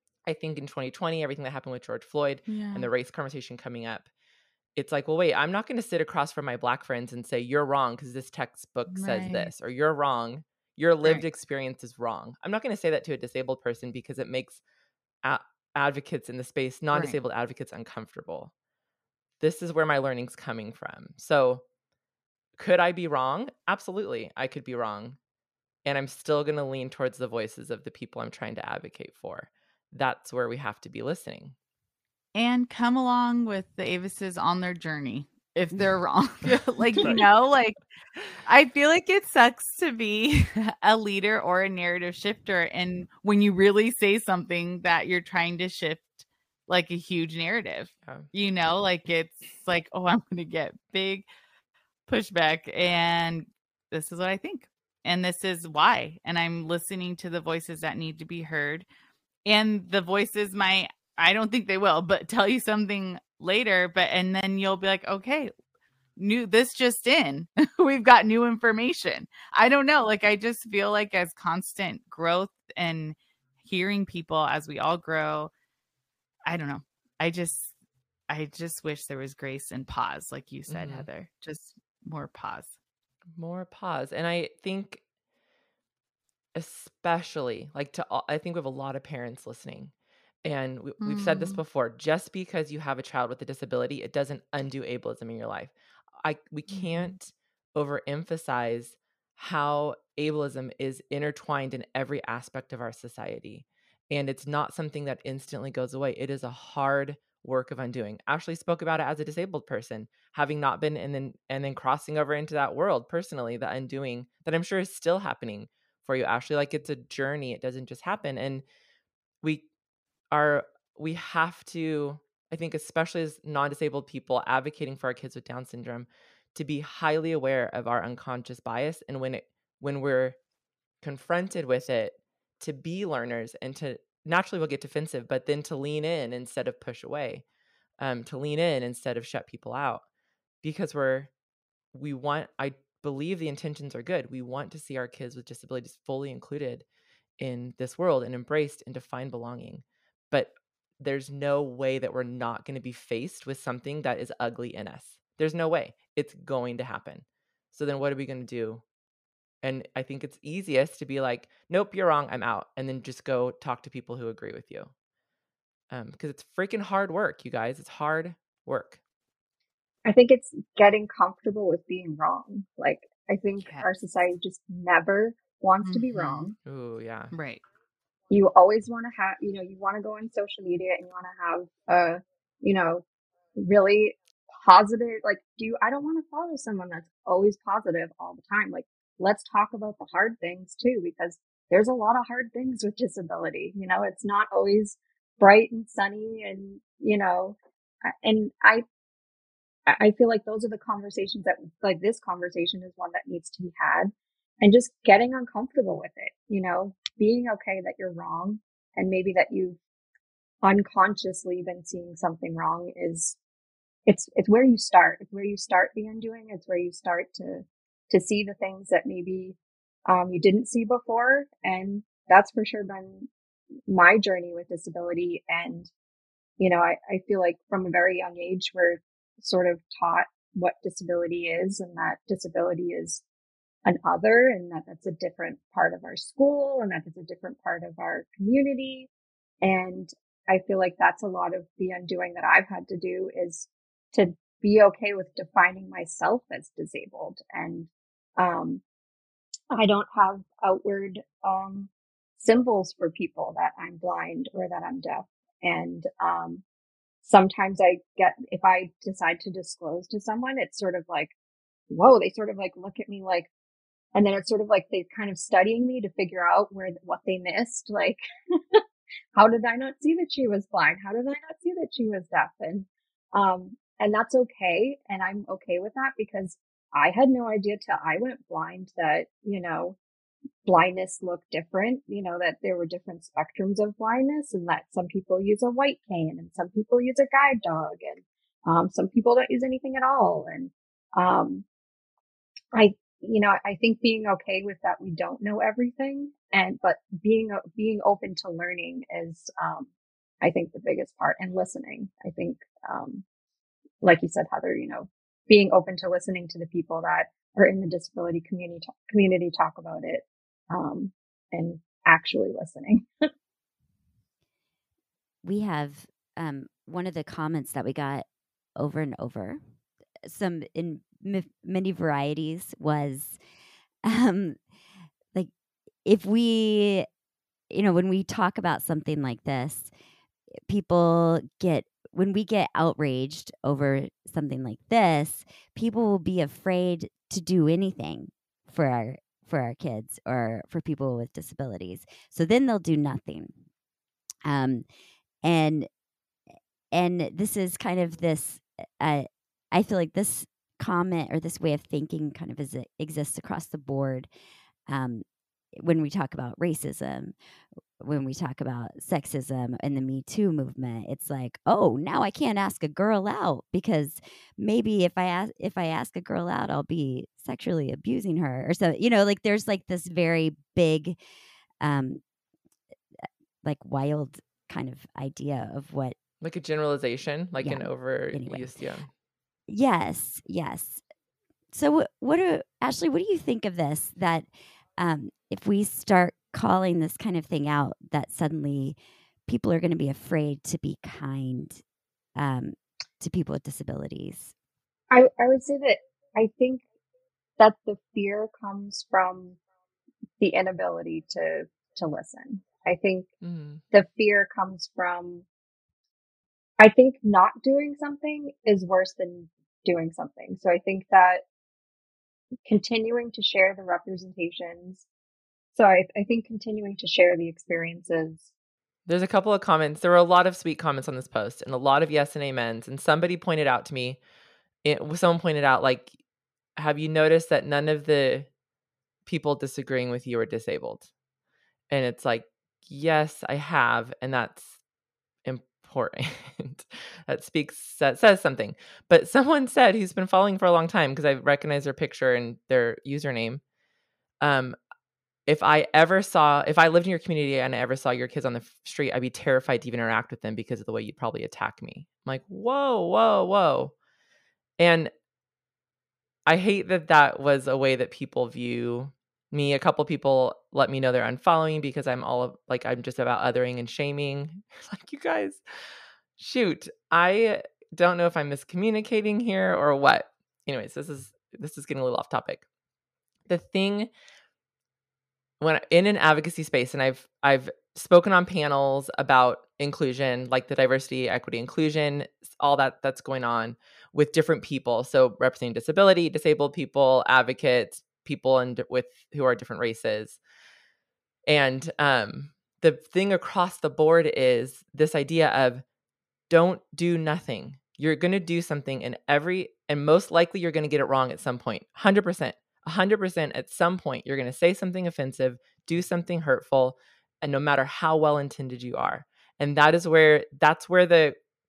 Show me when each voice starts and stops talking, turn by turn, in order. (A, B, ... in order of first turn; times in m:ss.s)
0:00.2-0:04.1 A
0:02.5-0:02.9 B
0:04.8-0:14.6 A
0:08.9-0:09.5 B
0:15.2-0:18.5 A
0:16.9-0:17.2 B
0:19.4-0:21.6 A
0:22.6-0:25.2 A
0:25.8-0:31.5 A
0:32.3-0:37.8 B
0:38.4-0:51.2 B
0:52.1-0:58.8 B
0:59.4-1:05.5 B
1:06.2-1:15.5 B
1:16.4-1:17.7 B
1:18.3-1:22.8 B
1:20.7-1:21.1 A
1:23.4-1:25.0 A
1:26.6-1:29.9 A
1:30.4-1:58.6 A
1:31.0-1:31.6 B
1:36.7-1:37.1 B
2:00.3-2:10.4 A
2:11.0-2:17.4 A
2:18.0-2:20.0 A
2:20.6-2:21.3 A
2:21.9-2:26.8 A
2:27.4-2:38.8 A
2:39.6-2:44.9 A
2:45.9-2:49.0 A
2:50.0-2:56.5 C
2:53.6-2:53.8 B
2:55.8-2:56.5 B
2:56.6-2:57.3 A
2:57.3-2:57.6 B
2:58.3-3:18.8 C
3:19.9-3:29.8 C
3:30.6-3:33.4 C
3:34.0-3:39.6 C
3:40.1-3:43.3 C
3:43.9-3:45.9 C
3:46.6-3:53.2 C
3:53.8-3:59.1 C
3:59.6-4:08.8 C
4:09.7-4:16.6 C
4:17.2-4:21.3 C
4:21.9-4:23.5 C
4:24.1-4:28.2 C
4:29.3-4:40.0 C
4:40.6-4:51.6 C
4:52.7-4:59.9 C
5:00.4-5:03.2 C
5:04.0-5:13.1 C
5:15.4-5:18.2 D
5:18.8-5:19.6 D
5:20.2-5:23.4 D
5:24.0-5:24.6 D
5:26.0-5:27.1 D
5:27.7-5:29.9 D
5:30.7-5:43.5 D
5:44.4-5:44.8 D
5:45.4-5:45.9 D
5:46.9-5:54.3 D
5:54.9-5:57.3 D
5:58.0-6:11.2 D
6:11.8-6:12.2 D
6:13.6-6:16.2 D
6:16.4-6:19.1 A
6:17.6-6:18.7 D
6:19.7-6:21.0 D
6:21.7-6:31.8 D
6:32.4-6:34.5 D
6:35.1-6:36.8 C
6:37.6-6:39.6 C
6:40.4-6:43.3 C
6:43.4-6:43.8 A
6:43.9-6:45.4 C
6:46.8-6:51.4 C
6:52.6-6:55.0 C
6:55.7-6:58.5 C
6:59.1-7:04.2 A
7:04.8-7:06.2 A
7:06.8-7:08.5 A
7:09.2-7:11.1 A
7:11.9-7:14.8 A
7:15.4-7:23.6 A
7:24.4-7:24.8 A
7:25.5-7:33.9 A
7:34.8-7:35.1 A
7:36.5-7:45.6 A
7:46.4-7:52.6 A
7:53.5-7:54.1 A
7:55.6-8:10.4 A
8:11.5-8:15.8 A
8:16.5-8:31.4 A